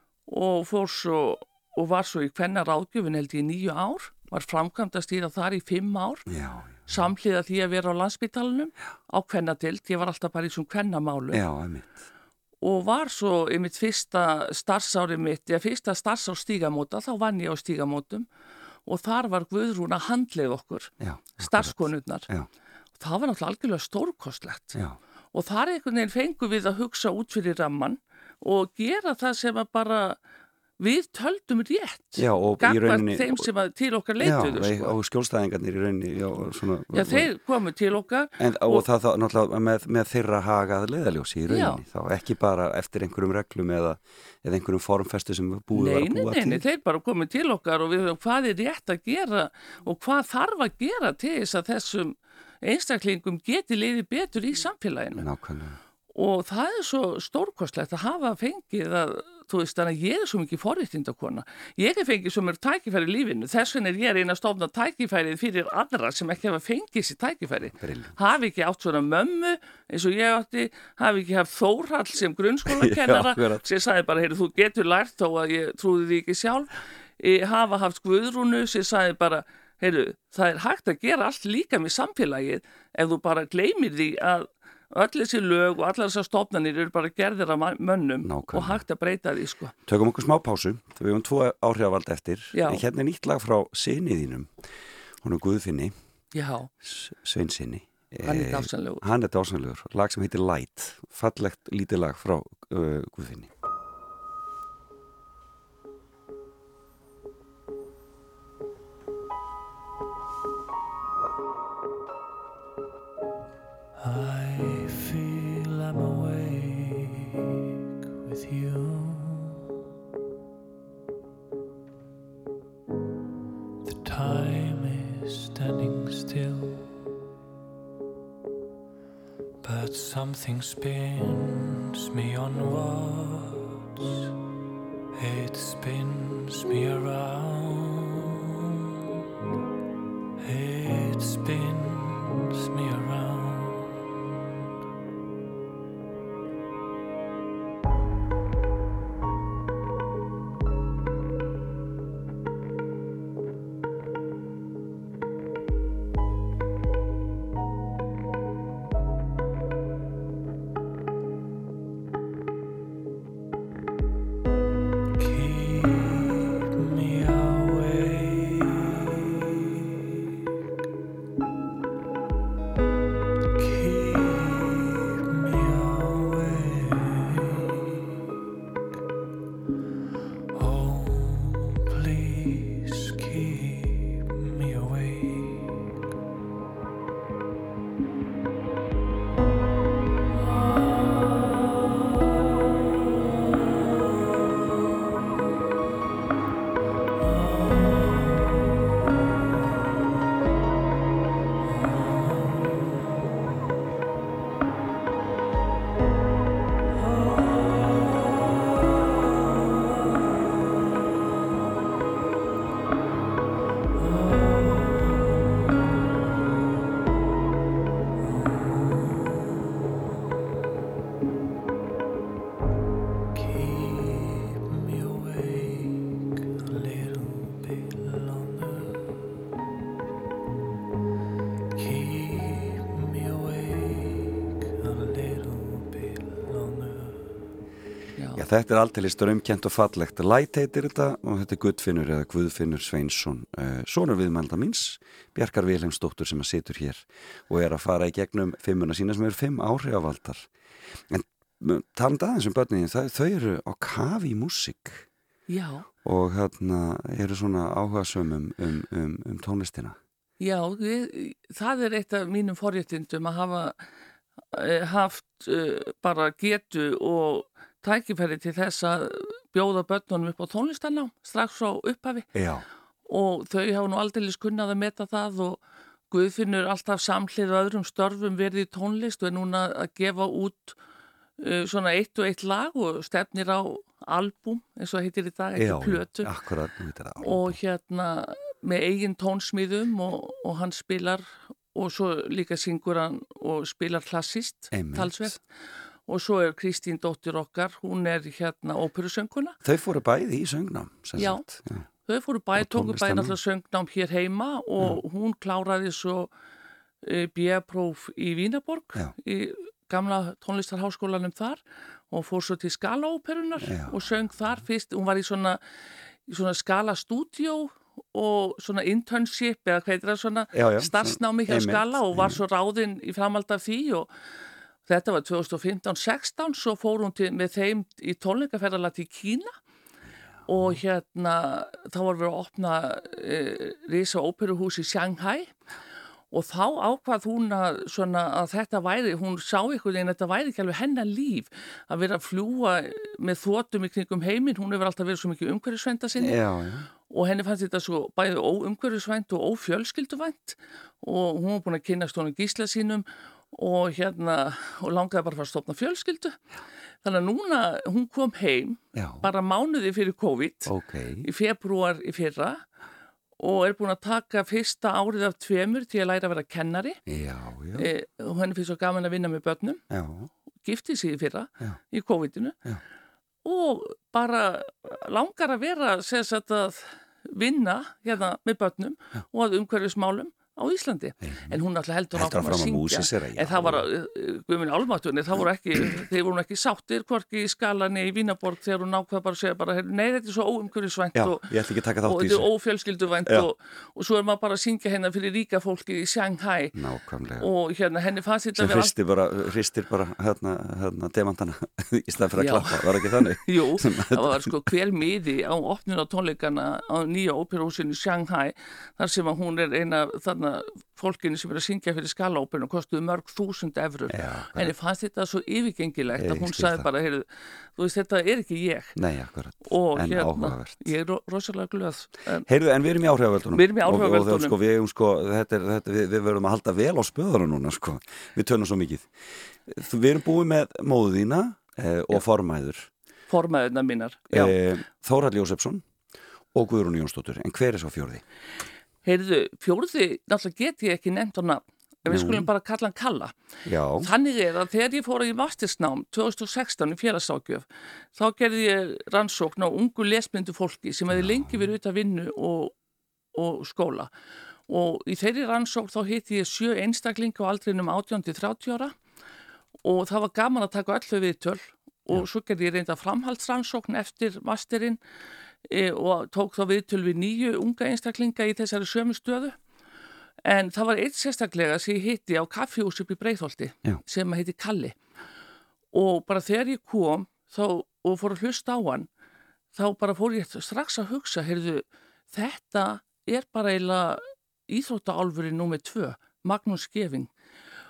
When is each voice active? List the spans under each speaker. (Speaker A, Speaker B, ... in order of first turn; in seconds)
Speaker A: 0.3-6.3, 6.9-11.4, 12.6-18.3, 18.9-22.3, 23.0-24.8, 25.3-30.2, 30.8-35.0, 36.9-38.9, 41.5-41.8, 45.7-55.3, 56.1-89.7, 92.5-92.8, 96.3-96.7, 98.2-99.0, 238.2-238.4, 255.5-255.9, 260.4-263.8, 264.5-272.3, 273.1-275.6, 276.1-280.8, 281.4-286.3, 287.2-295.4, 296.1-299.6, 301.2-301.5, 302.1-306.3, 307.0-315.6, 316.3-324.1, 324.9-329.5, 330.5-335.5, 336.3-346.4, 347.1-356.4, 357.0-360.7, 361.2-362.6, 363.4-367.0, 367.8-369.8, 370.6-372.6, 373.4-391.5, 392.0-396.8, 397.4-398.9, 402.4-417.3, 417.8-419.0, 419.6-422.5, 423.5-424.6, 433.3-434.6, 439.1-443.4, 444.0-452.7, 453.4-454.1, 454.7-458.9, 459.8-465.0, 465.7-469.6, 470.5-475.0, 475.9-479.1, 479.8-487.3
Speaker B: 6.3-7.1, 11.3-12.1, 21.0-22.5, 32.2-33.5, 34.2-37.3, 38.4-46.6, 55.2-55.8, 67.7-68.2, 72.7-73.6, 88.2-88.8, 89.9-94.5, 95.2-96.0, 96.8-103.5, 238.3-250.5, 251.1-255.1, 256.0-260.0, 272.3-272.6, 285.6-287.6, 294.7-295.4, 299.6-301.9, 302.5-303.4, 313.6-314.0, 320.5-322.4, 330.5-330.8, 346.2-346.9, 358.9-359.3, 360.7-361.3, 367.1-367.9, 369.9-370.3, 381.2-381.6, 382.1-383.9, 391.1-392.5, 396.7-397.5, 398.6-404.5, 414.1-414.7, 416.1-416.9, 418.9-420.9, 422.5-429.1, 429.7-432.9, 434.3-435.8, 436.5-438.2, 442.1-442.5, 443.6-444.1, 451.1-451.6
Speaker C: 114.0-117.5, 118.2-119.6, 123.8-127.0, 129.6-134.3, 135.2-138.6, 140.4-144.1, 165.2-170.2, 173.6-178.1, 180.5-185.8, 202.0-202.7, 214.0-215.3, 218.2-219.5, 223.3-229.2, 231.8-237.4